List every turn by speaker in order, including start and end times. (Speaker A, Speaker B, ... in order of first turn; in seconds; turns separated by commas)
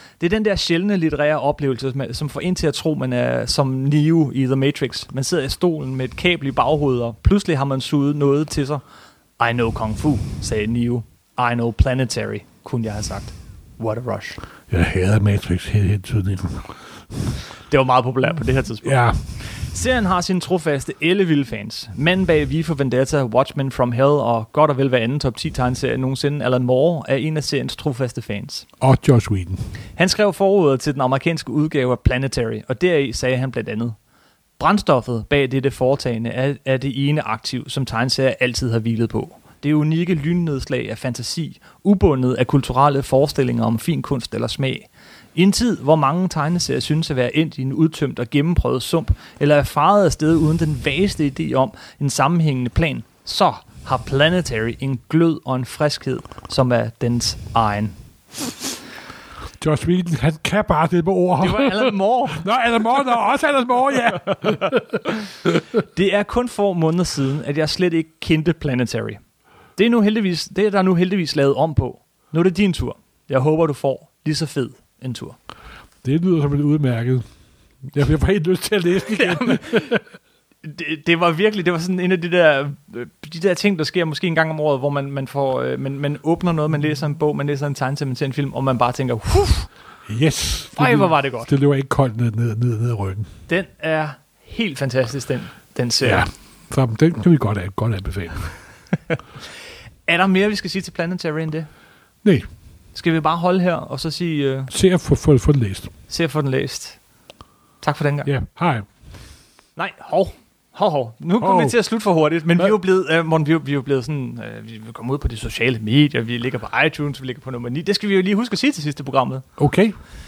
Speaker A: 0.2-8.8, Speaker A: 9.4-14.4, Speaker B: 14.7-16.7, Speaker A: 17.7-28.6, Speaker B: 18.8-19.2, Speaker B: 28.8-29.6, Speaker A: 30.0-33.9, Speaker A: 34.6-57.9, Speaker B: 59.6-65.0, Speaker A: 61.4-62.5, Speaker A: 65.8-69.2, Speaker A: 69.8-75.3, Speaker B: 76.0-77.2, Speaker B: 77.8-80.0, Speaker A: 79.1-79.9, Speaker A: 80.6-89.7, Speaker B: 90.1-93.3, Speaker A: 90.7-91.5, Speaker A: 93.5-96.2, Speaker B: 96.0-98.5, Speaker A: 100.1-101.7, Speaker A: 102.9-104.7, Speaker B: 104.7-105.9, Speaker A: 106.1-107.0, Speaker A: 107.8-108.3, Speaker B: 108.2-108.8, Speaker A: 109.8-119.4, Speaker B: 111.4-111.8, Speaker B: 119.6-119.9